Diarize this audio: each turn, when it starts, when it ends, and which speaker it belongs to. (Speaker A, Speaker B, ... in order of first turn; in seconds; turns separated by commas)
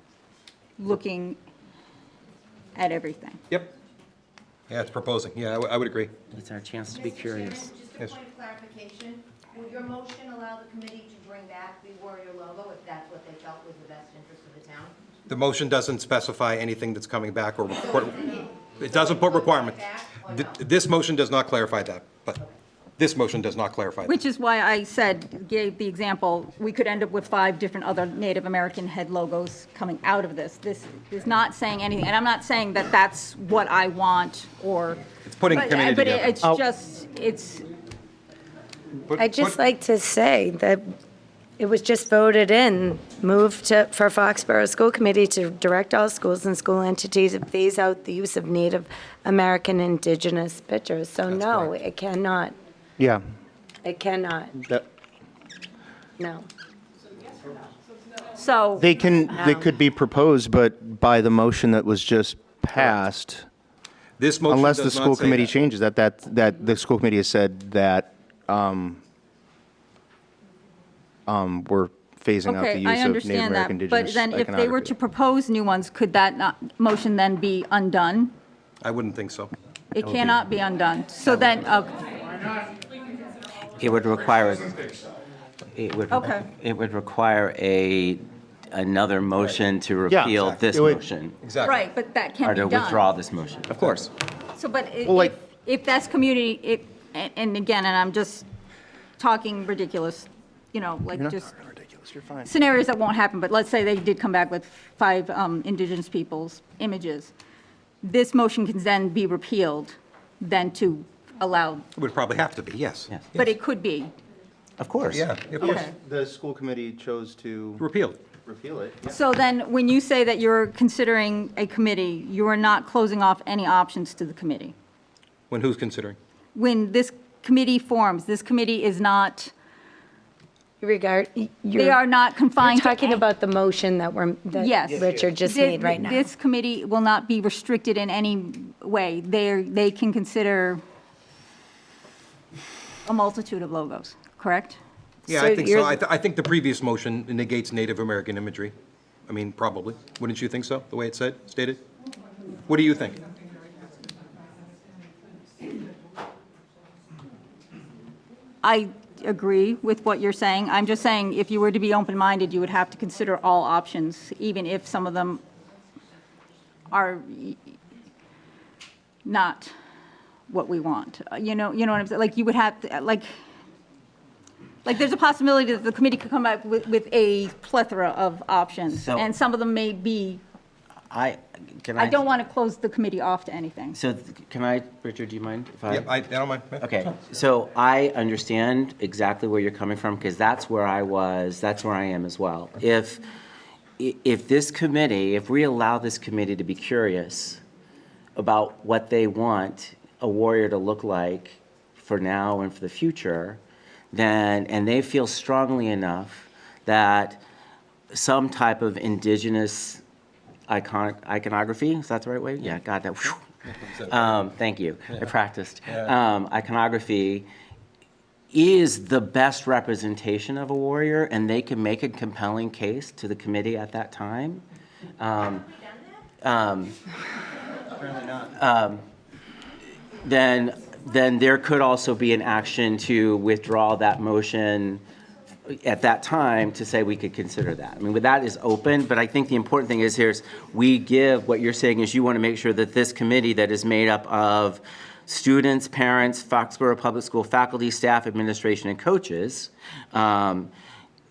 Speaker A: 0.8-1.4, Speaker A: 2.7-3.4, Speaker B: 4.7-6.1, Speaker C: 6.3-7.9, Speaker D: 8.2-14.9, Speaker B: 15.3-22.4, Speaker B: 23.0-24.2, Speaker A: 24.0-37.6, Speaker B: 35.2-36.4, Speaker B: 39.1-39.6, Speaker E: 39.1-40.8, Speaker E: 41.6-52.5, Speaker B: 51.4-51.7, Speaker E: 53.8-54.6, Speaker E: 56.2-56.4, Speaker A: 58.4-58.9, Speaker F: 58.8-63.5, Speaker B: 62.7-63.0, Speaker B: 64.2-65.5, Speaker F: 64.5-69.0, Speaker F: 71.3-74.9, Speaker A: 72.5-78.3, Speaker B: 78.8-79.5, Speaker A: 79.9-82.0, Speaker C: 83.8-84.9, Speaker C: 85.7-91.3, Speaker A: 86.1-86.5, Speaker F: 90.1-91.0, Speaker B: 90.3-90.6, Speaker B: 91.4-91.8, Speaker A: 91.6-93.0, Speaker C: 92.4-94.1, Speaker A: 94.5-98.5, Speaker F: 95.0-95.3, Speaker A: 99.2-101.5, Speaker F: 101.1-102.5, Speaker A: 102.4-107.3, Speaker A: 108.0-111.9, Speaker B: 111.9-113.5, Speaker A: 113.3-114.1, Speaker C: 114.8-115.2, Speaker B: 115.1-115.8, Speaker F: 115.6-117.8, Speaker A: 115.6-115.9, Speaker B: 117.8-118.2, Speaker F: 118.4-119.2, Speaker A: 119.0-124.7, Speaker B: 125.5-126.2, Speaker A: 126.5-129.5, Speaker E: 130.8-132.0, Speaker A: 131.8-133.2, Speaker E: 132.6-136.3, Speaker A: 134.6-140.8, Speaker C: 134.9-135.3, Speaker A: 143.1-144.8, Speaker B: 145.3-148.7, Speaker E: 145.3-145.9, Speaker B: 149.3-151.8, Speaker B: 152.7-153.2, Speaker A: 158.6-165.4, Speaker A: 166.9-167.7, Speaker A: 169.2-169.7, Speaker A: 170.5-173.2, Speaker A: 174.8-180.4, Speaker C: 178.9-179.3, Speaker C: 181.1-182.2, Speaker A: 182.0-184.0, Speaker C: 183.9-186.1, Speaker B: 185.9-186.9, Speaker C: 186.8-193.2, Speaker C: 194.0-197.6, Speaker C: 198.3-203.6, Speaker C: 204.1-207.4, Speaker C: 208.1-210.0, Speaker C: 210.7-217.5, Speaker B: 213.7-214.2, Speaker C: 218.5-224.6, Speaker C: 225.2-225.7, Speaker C: 226.4-226.9, Speaker C: 228.3-229.0, Speaker C: 230.2-235.0, Speaker C: 235.7-250.7